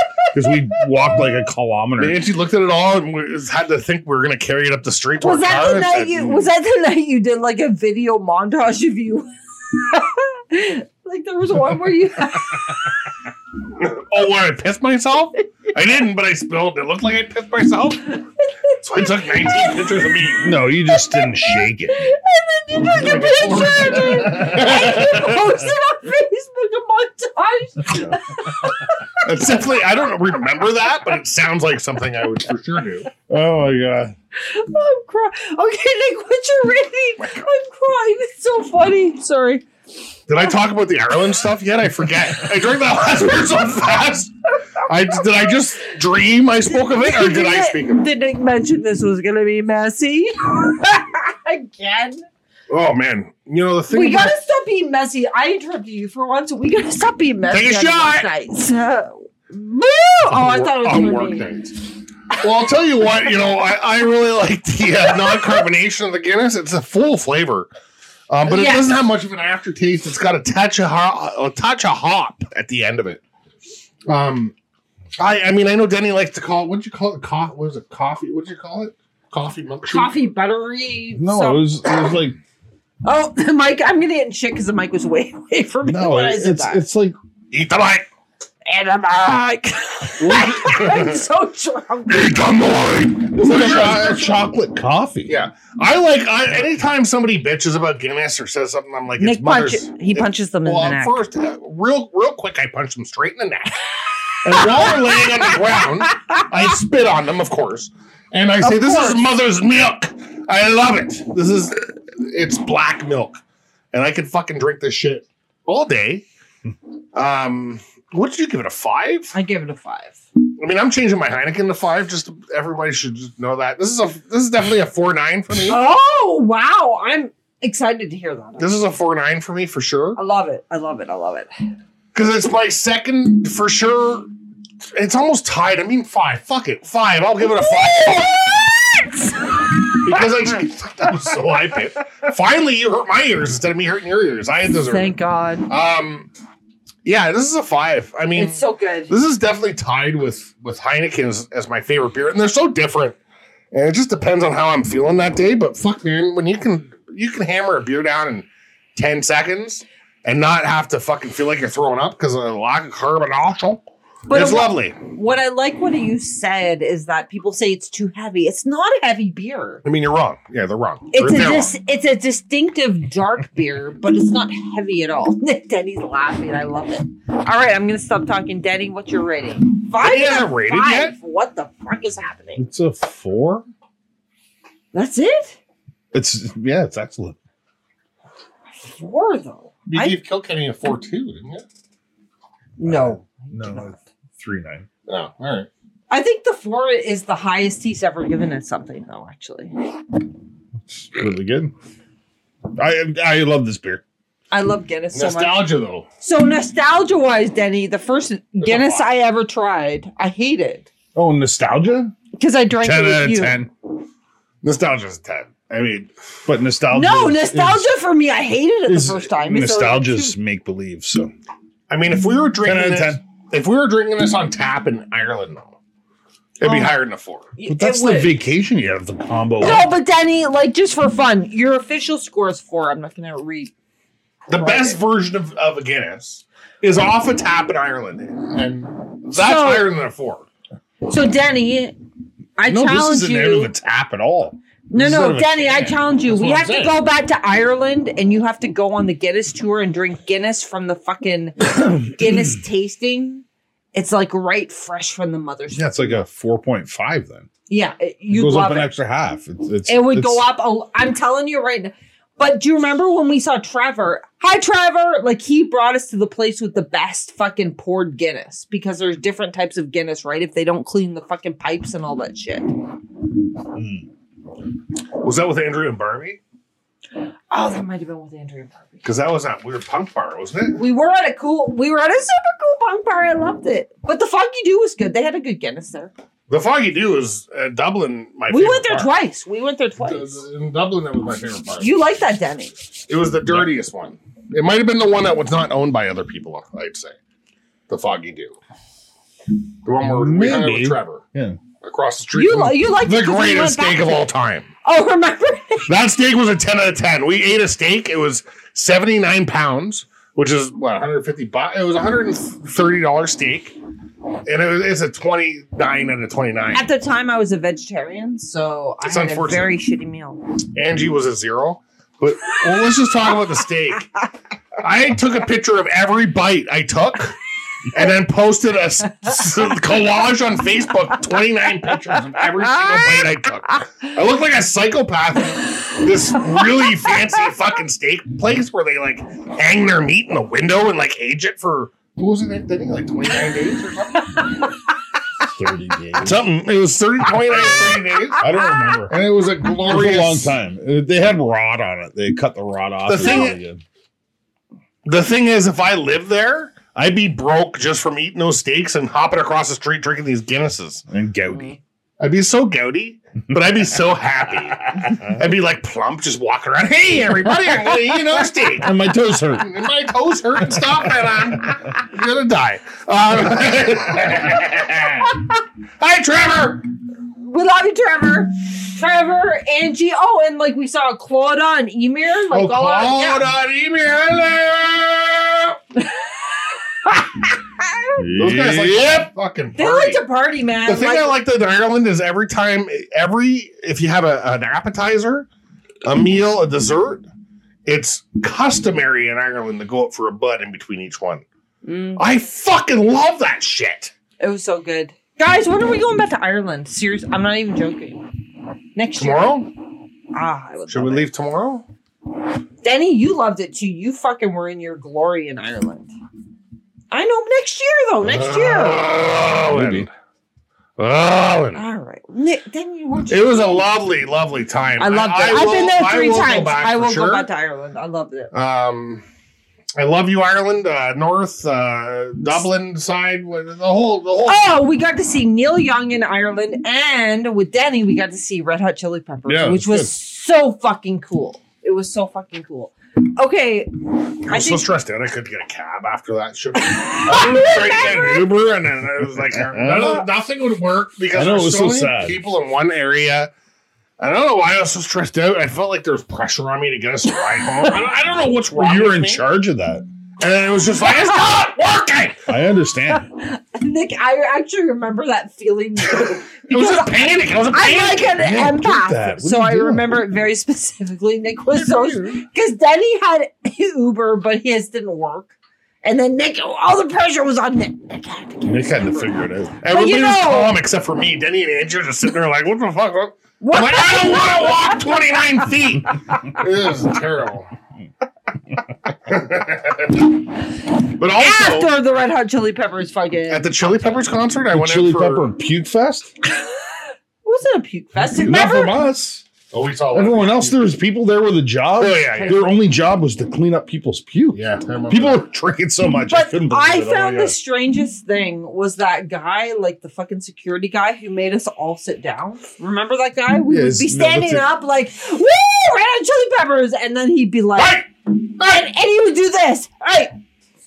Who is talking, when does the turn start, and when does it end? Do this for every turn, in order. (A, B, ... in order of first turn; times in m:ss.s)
0:00.3-0:02.2 A
0:02.0-0:06.4 B
0:05.2-0:12.8 C
0:13.8-0:18.2 B
0:18.8-0:20.5 B
0:19.0-0:19.8 C
0:20.4-0:22.1 A
0:20.9-0:29.2 C
0:22.8-0:25.4 B
0:24.0-0:25.1 A
0:29.2-0:33.1 B
0:33.3-0:34.1 A
0:34.4-0:39.6 C
0:37.2-0:37.5 B
0:40.3-0:44.3 B
0:44.8-0:48.1 B
0:46.7-0:52.2 C
0:52.7-0:54.3 B
0:53.9-1:01.4 C
0:57.5-0:58.3 B
1:00.3-1:01.8 B
1:02.3-1:07.7 B
1:05.1-1:05.6 C
1:08.3-1:13.2 B
1:08.5-1:08.9 C
1:14.1-1:14.5 B
1:15.2-1:20.1 B
1:19.9-1:22.0 C
1:21.2-1:22.4 A
1:23.0-1:26.8 C
1:25.8-1:27.2 A
1:27.5-1:28.1 B
1:28.6-1:32.5 C
1:30.2-1:31.2 B
1:32.1-1:34.4 B
1:33.3-1:35.3 A
1:35.3-1:53.4 B
1:39.2-1:41.2 C
1:44.5-1:46.4 C
1:48.6-1:49.2 C
1:53.9-1:56.2 B
1:57.1-1:59.3 B
1:59.3-2:00.2 C
2:00.6-2:05.8 B
2:05.7-2:08.8 C
2:08.6-2:10.2 B
2:10.2-2:11.5 C
2:12.1-2:14.3 B
2:14.9-2:18.3 B
2:17.4-2:20.2 C
2:20.0-2:25.1 B
2:24.8-2:25.7 C
2:25.7-2:26.3 B
2:27.0-2:33.2 B
2:28.3-2:29.1 C
2:33.7-2:45.0 B
2:44.3-2:49.8 C
2:49.8-2:51.7 B
2:51.1-3:02.6 C
3:00.0-3:01.1 B
3:02.6-3:03.7 A
3:04.9-3:05.6 C
3:06.1-3:07.4 A
3:08.8-3:10.2 C
3:09.9-3:11.6 B
3:12.8-3:13.9 C
3:12.8-3:14.9 A
3:15.1-3:15.7 B
3:16.1-3:19.7 C
3:20.9-3:21.7 A
3:22.8-3:24.0 A
3:24.5-3:25.7 C
3:25.1-3:26.1 B
3:26.2-3:30.9 C
3:28.6-3:29.0 B
3:31.1-3:32.1 A
3:32.3-3:33.6 C
3:32.8-3:33.7 A
3:34.6-3:36.1 B
3:36.4-3:37.9 A
3:36.9-3:40.3 C
3:38.9-3:41.3 A
3:41.9-3:45.7 B
3:42.6-3:43.2 A
3:46.6-3:47.5 B
3:46.6-3:47.0 C
3:47.6-3:48.3 C
3:47.7-3:49.9 A
3:49.6-3:53.7 C
3:54.5-4:00.4 B
3:54.5-3:55.0 C
3:59.3-3:59.9 C
4:01.1-4:02.0 C
4:02.6-4:03.7 C
4:02.7-4:05.7 A
4:04.9-4:16.2 C
4:05.5-4:07.0 B
4:15.7-4:17.5 A
4:17.7-4:18.9 C
4:18.3-4:20.4 A
4:19.9-4:32.7 C
4:33.7-4:34.0 A
4:35.2-4:36.4 B
4:37.5-4:39.0 C
4:39.0-4:40.8 B
4:40.8-4:46.1 C
4:46.5-4:49.1 B
4:48.5-4:50.4 C
4:50.0-4:52.0 B
4:51.8-4:52.7 C
4:53.1-4:57.1 B
4:57.9-4:58.5 B
4:59.8-5:01.2 B
5:00.0-5:01.6 A
5:01.8-5:04.7 B
5:02.3-5:04.3 C
5:04.8-5:05.9 C
5:05.9-5:13.8 B
5:14.4-5:16.8 B
5:16.7-5:20.4 C
5:19.0-5:19.8 B
5:20.7-5:24.1 B
5:24.8-5:27.4 B
5:27.9-5:44.6 B
5:32.4-5:34.0 C
5:36.5-5:37.4 C
5:44.3-5:44.8 C
5:45.5-5:46.4 A
5:46.2-5:48.5 B
5:47.4-5:49.0 C
5:48.4-5:49.2 A
5:49.1-5:50.5 B
5:49.8-5:53.8 A
5:53.0-5:53.6 B
5:55.0-6:01.0 B
6:01.1-6:01.8 A
6:02.2-6:16.8 B
6:08.8-6:09.7 A
6:17.4-6:23.5 C
6:22.5-6:25.8 B
6:26.0-6:28.2 C
6:28.2-6:29.3 A
6:28.4-6:30.2 B
6:29.8-6:31.4 C
6:30.8-6:35.5 B
6:36.0-6:37.3 B
6:37.8-6:41.4 B
6:41.8-6:42.2 C
6:42.2-6:44.1 B
6:44.4-6:48.2 C
6:48.9-6:49.6 C
6:49.2-6:49.7 B
6:50.3-6:51.2 C
6:50.9-6:51.8 B
6:52.8-6:56.1 C
6:57.1-6:59.1 C
6:58.2-7:00.1 B
6:59.7-7:00.1 A
7:01.0-7:01.8 B
7:01.7-7:03.8 C
7:03.3-7:07.5 B
7:05.0-7:08.5 C
7:08.5-7:09.2 B
7:10.0-7:14.8 B
7:14.4-7:24.8 C
7:19.4-7:20.1 A
7:24.5-7:33.5 B
7:26.8-7:28.5 C
7:29.5-7:30.2 A
7:31.3-7:32.4 A
7:34.2-7:39.4 B
7:38.7-7:40.0 A
7:40.4-7:42.4 B
7:41.0-7:42.0 C
7:42.5-7:43.3 A
7:43.1-7:55.5 C
7:46.2-7:48.4 B
7:48.4-7:50.2 A
7:51.8-7:52.4 B
7:56.0-7:58.9 C
7:58.6-7:59.8 A
7:59.8-8:07.7 B
7:59.9-8:00.8 C
8:03.6-8:05.4 C
8:09.2-8:10.3 B
8:11.2-8:12.0 B
8:11.2-8:13.7 C
8:13.5-8:15.5 B
8:14.7-8:16.3 A
8:17.4-8:19.0 C
8:18.2-8:19.4 A
8:19.7-8:20.9 B
8:20.1-8:27.6 A
8:22.0-8:22.7 B
8:24.5-8:25.4 B
8:26.3-8:40.3 C
8:33.7-8:34.7 A
8:37.8-8:38.0 B